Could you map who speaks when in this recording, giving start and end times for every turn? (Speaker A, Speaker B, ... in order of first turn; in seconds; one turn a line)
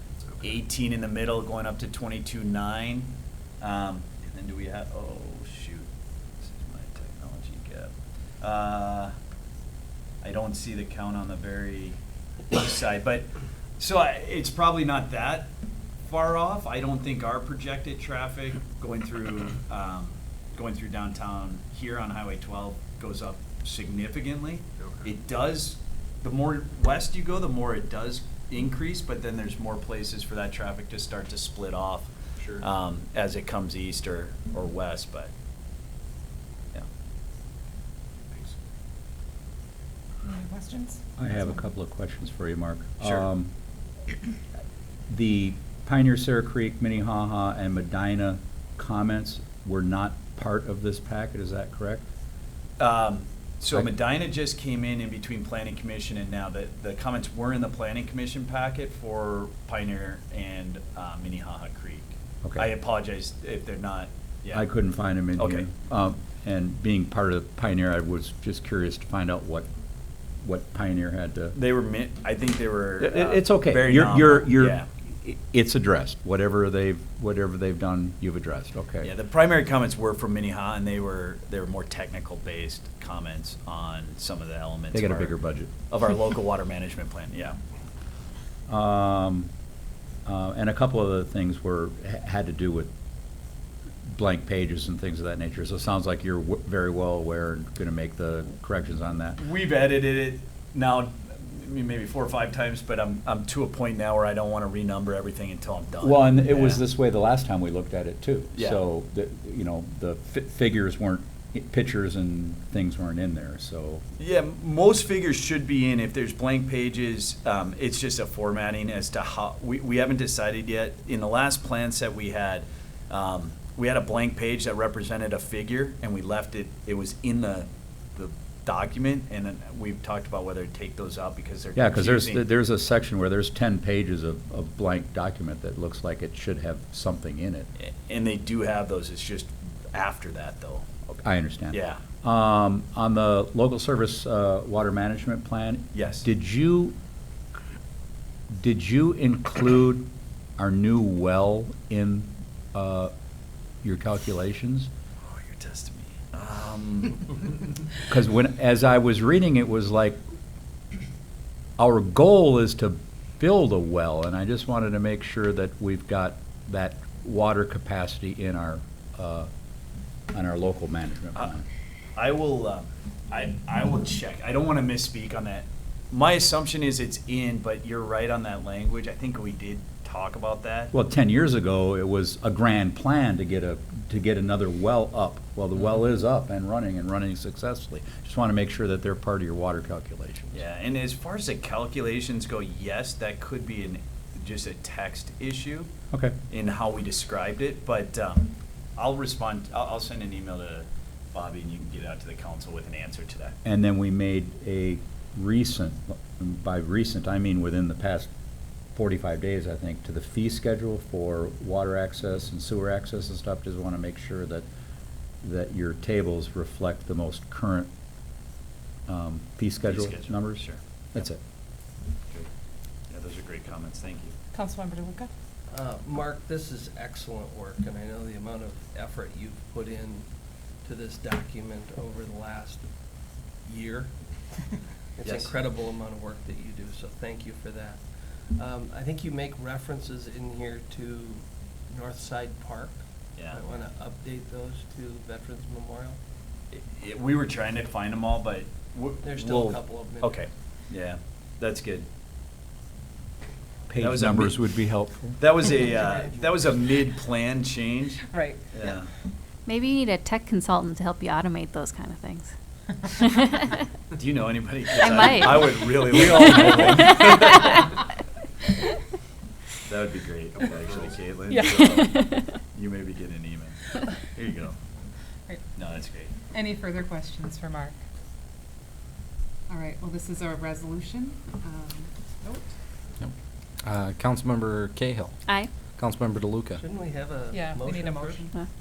Speaker A: 0.4-5.9
Speaker A: 6.4-9.1
Speaker A: 10.2-12.0
Speaker A: 12.5-15.5
Speaker A: 16.0-35.3
Speaker B: 40.2-41.0
Speaker C: 41.2-43.5
Speaker C: 45.1-52.0
Speaker A: 52.8-64.6
Speaker C: 62.4-62.7
Speaker C: 64.5-69.7
Speaker A: 65.4-65.7
Speaker C: 70.4-71.5
Speaker A: 71.5-74.9
Speaker C: 73.0-79.1
Speaker A: 79.0-85.3
Speaker C: 84.9-85.7
Speaker A: 85.9-87.6
Speaker C: 88.7-89.5
Speaker C: 90.2-92.9
Speaker C: 94.0-99.4
Speaker A: 99.4-106.8
Speaker C: 106.0-114.0
Speaker A: 108.5-108.8
Speaker A: 114.2-132.4
Speaker C: 131.8-137.7
Speaker A: 137.8-142.0
Speaker C: 141.2-146.9
Speaker A: 145.9-146.2
Speaker C: 148.5-153.1
Speaker C: 153.8-154.9
Speaker A: 155.2-157.5
Speaker C: 158.1-160.2
Speaker C: 161.8-169.5
Speaker C: 170.3-171.7
Speaker A: 172.2-180.9
Speaker C: 180.9-190.6
Speaker A: 190.5-195.9
Speaker A: 196.5-203.5
Speaker C: 203.6-208.3
Speaker C: 208.9-214.7
Speaker C: 215.4-217.9
Speaker C: 219.1-221.4
Speaker A: 219.9-220.8
Speaker A: 223.1-224.3
Speaker B: 224.5-225.3
Speaker D: 225.7-230.2
Speaker D: 230.8-232.8
Speaker D: 233.7-234.1
Speaker D: 235.1-238.0
Speaker A: 235.2-235.5
Speaker D: 238.5-246.2
Speaker A: 243.4-243.6
Speaker A: 246.7-252.1
Speaker D: 249.2-250.4
Speaker C: 253.9-255.7
Speaker A: 253.9-254.6
Speaker A: 255.4-259.1
Speaker D: 255.8-256.6
Speaker B: 258.3-258.6
Speaker E: 259.6-262.5
Speaker E: 263.2-263.6
Speaker A: 264.1-268.0
Speaker E: 265.0-267.4
Speaker A: 269.8-274.8
Speaker E: 271.8-272.4
Speaker A: 275.8-276.3
Speaker B: 276.5-277.9
Speaker B: 279.7-282.6
Speaker F: 283.2-285.4
Speaker F: 285.9-286.8
Speaker D: 286.8-288.5
Speaker B: 287.5-288.5